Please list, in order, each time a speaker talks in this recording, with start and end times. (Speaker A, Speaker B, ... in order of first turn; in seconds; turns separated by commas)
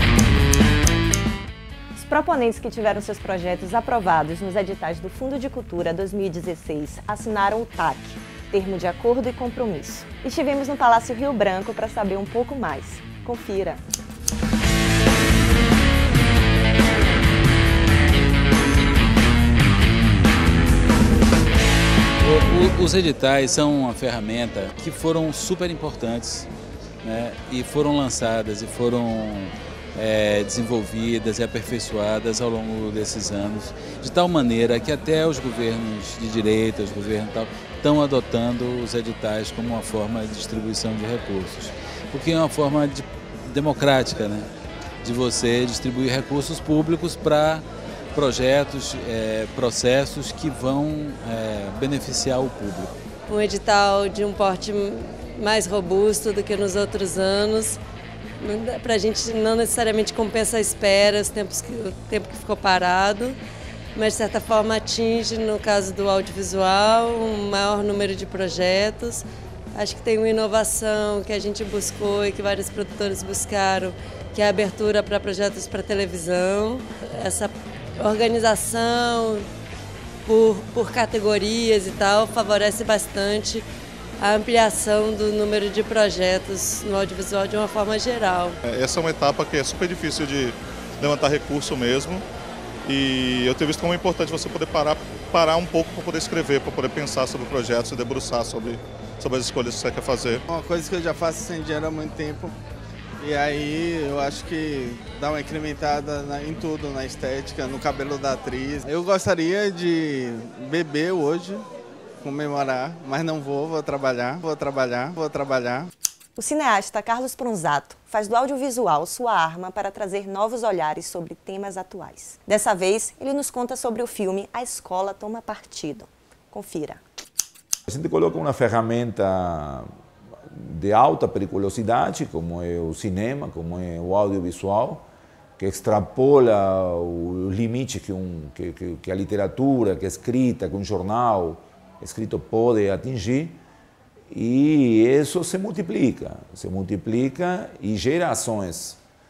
Speaker A: 1.9-13.8, Speaker B: 22.2-26.5, Speaker B: 27.0-44.5, Speaker B: 45.0-53.0, Speaker C: 53.3-57.8, Speaker C: 58.4-63.4, Speaker C: 63.9-79.5, Speaker C: 80.3-83.7, Speaker C: 84.2-88.6, Speaker D: 88.6-92.2, Speaker D: 92.8-100.4, Speaker E: 100.5-102.5, Speaker E: 103.2-111.6, Speaker E: 112.2-115.9, Speaker A: 116.4-127.0, Speaker F: 127.9-129.9, Speaker F: 130.5-135.1, Speaker F: 135.6-143.6, Speaker F: 144.3-149.0